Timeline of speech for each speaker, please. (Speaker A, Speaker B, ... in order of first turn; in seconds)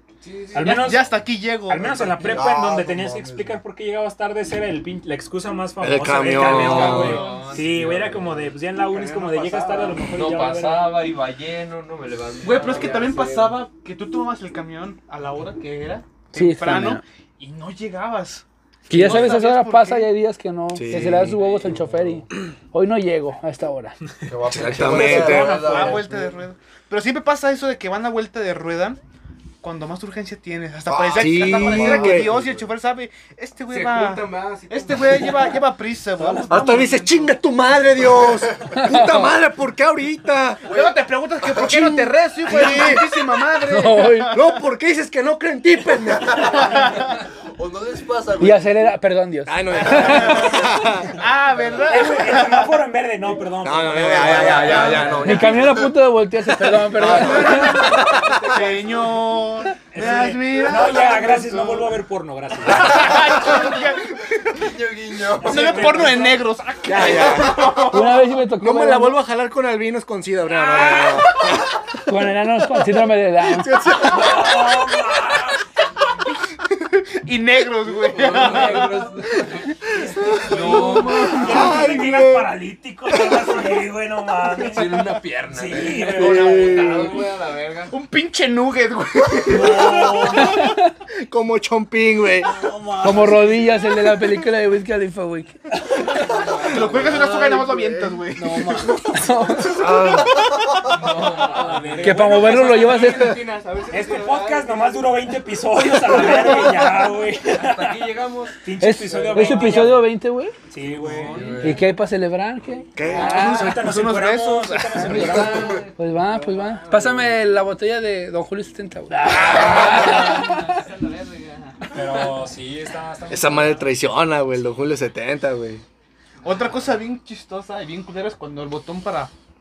Speaker A: 0.2-1.1, 6.4-7.9, 8.8-10.1, 12.4-13.6, 33.7-35.6, 36.2-36.8, 54.3-55.6, 57.0-59.3, 77.9-81.8, 84.7-88.0, 96.2-97.7, 98.3-99.0, 100.9-105.3, 105.9-110.0, 111.3-111.6, 113.0-113.8, 115.1-117.4, 119.2-121.9
Speaker B: 0.5-1.1, 1.7-11.1, 51.9-55.6, 59.9-63.5, 65.4-66.4, 70.5-71.5, 73.9-75.6, 80.3-87.1, 89.5-90.7, 92.4-93.9, 101.4-110.1, 110.7-111.8, 113.1-115.8, 119.3-120.3, 121.9-123.9
Speaker C: 0.6-2.4, 6.7-7.5, 12.4-20.1, 24.9-29.0, 29.6-37.3, 40.6-44.6, 46.5-47.0, 49.9-52.8, 54.7-55.1, 57.0-62.0, 62.6-64.7, 65.3-68.3, 77.2-79.2, 80.5-81.5, 86.7-87.1, 87.9-90.6, 96.6-98.9, 113.3-115.3, 119.6-120.8, 126.4-129.3
Speaker D: 1.8-3.6, 21.7-22.2, 24.3-26.4, 30.9-32.7, 38.0-38.7, 40.6-41.9, 46.3-46.9, 47.5-48.9, 54.0-55.0, 63.3-66.3, 67.2-67.5, 111.0-111.8, 115.1-115.9
Speaker E: 5.8-7.2, 20.7-21.4, 24.5-25.8, 30.9-32.3, 36.5-40.6, 41.5-43.6, 44.3-46.6, 49.5-51.1, 53.6-55.8, 56.9-58.4, 66.8-67.9, 68.6-71.7, 73.4-74.9, 80.2-82.5, 83.1-83.4, 86.2-87.2, 90.2-90.6, 91.2-92.5, 97.0-98.0, 99.7-100.4, 113.0-113.8, 123.3-125.8
Speaker F: 6.3-8.3, 10.0-13.2, 100.9-102.1
Speaker G: 16.3-17.0, 18.9-24.0, 38.7-39.3, 43.7-44.4, 48.4-50.5, 55.2-57.9, 67.8-69.2, 72.1-73.8, 93.0-95.6, 99.1-100.3, 102.0-103.4, 108.8-110.5, 111.6-113.7, 115.9-120.5